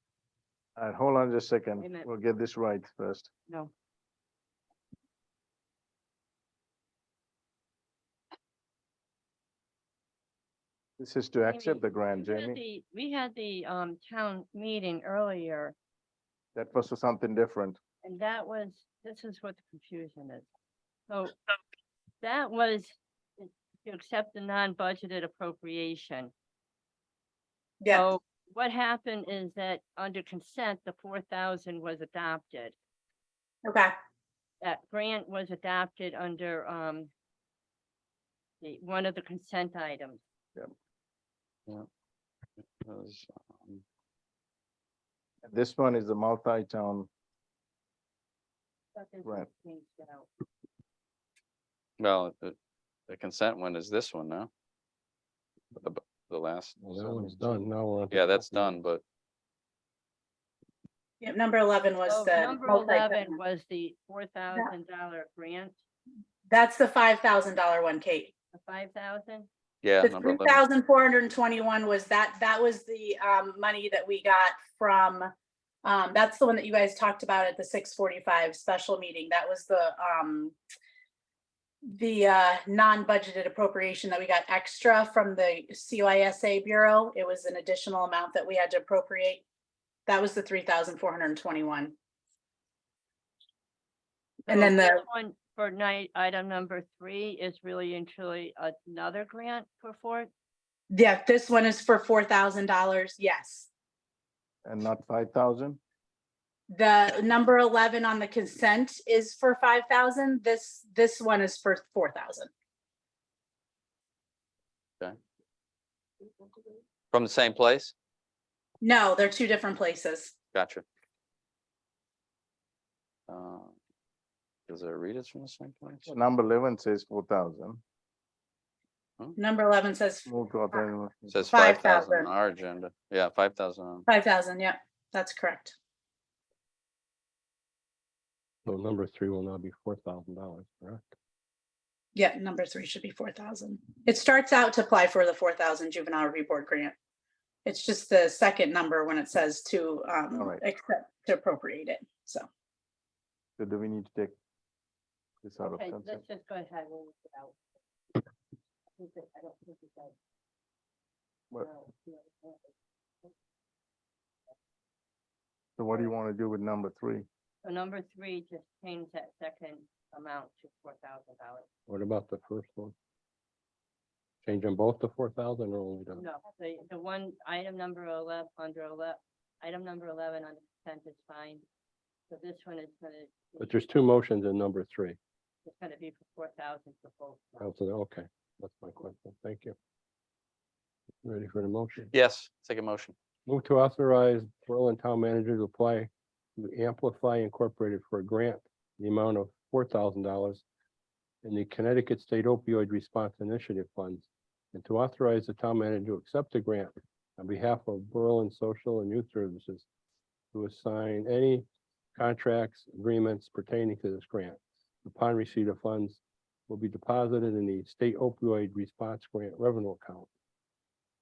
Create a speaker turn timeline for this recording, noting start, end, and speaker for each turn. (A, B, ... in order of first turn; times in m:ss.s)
0:00.8-0:03.3 A
0:01.8-0:02.1 B
0:11.0-0:12.6 A
0:11.5-0:15.7 B
0:16.5-0:17.8 A
0:18.0-0:20.4 B
0:21.1-0:21.4 B
0:22.2-0:26.3 B
0:27.9-0:32.7 B
0:33.6-0:33.9 C
0:34.6-0:37.1 B
0:38.6-0:40.2 B
0:42.6-0:43.8 D
0:45.4-0:47.1 A
0:48.9-0:50.3 B
0:52.0-0:52.6 D
0:53.1-0:54.5 D
0:55.7-0:57.6 D
0:56.8-0:58.7 E
0:58.1-0:59.0 D
1:01.2-1:03.4 C
1:02.1-1:05.7 B
1:06.5-1:08.3 C
1:08.5-1:09.5 B
1:09.8-1:10.6 D
1:10.0-1:15.3 C
1:15.8-1:20.6 C
1:21.9-1:29.4 C
1:30.1-1:31.9 C
1:34.5-1:35.0 C
1:34.5-1:40.3 B
1:40.9-1:43.7 C
1:44.6-1:45.8 A
1:46.7-1:52.5 C
1:57.1-1:57.9 D
1:58.8-2:00.3 C
2:00.5-2:00.8 D
2:03.3-2:03.7 D
2:04.7-2:06.1 D
2:06.1-2:07.8 A
2:09.4-2:10.3 C
2:10.2-2:11.3 A
2:11.3-2:14.1 D
2:11.5-2:12.3 C
2:14.1-2:15.8 C
2:18.6-2:21.1 E
2:22.1-2:26.9 C
2:27.6-2:32.5 C
2:33.6-2:34.4 A
2:35.4-2:36.2 A
2:35.6-2:37.6 B
2:39.0-2:40.1 B
2:41.5-2:42.7 B
2:45.8-2:47.2 A
2:47.6-2:51.7 B
2:51.9-2:52.9 E
2:54.4-2:56.2 E
2:56.1-3:01.6 B
3:02.3-3:03.8 B
3:03.6-3:05.2 E
3:05.6-3:07.6 B
3:07.6-3:09.8 E
3:11.2-3:12.1 E
3:12.1-3:13.2 D
3:13.4-3:20.6 E
3:21.4-3:29.8 E
3:30.5-3:40.3 E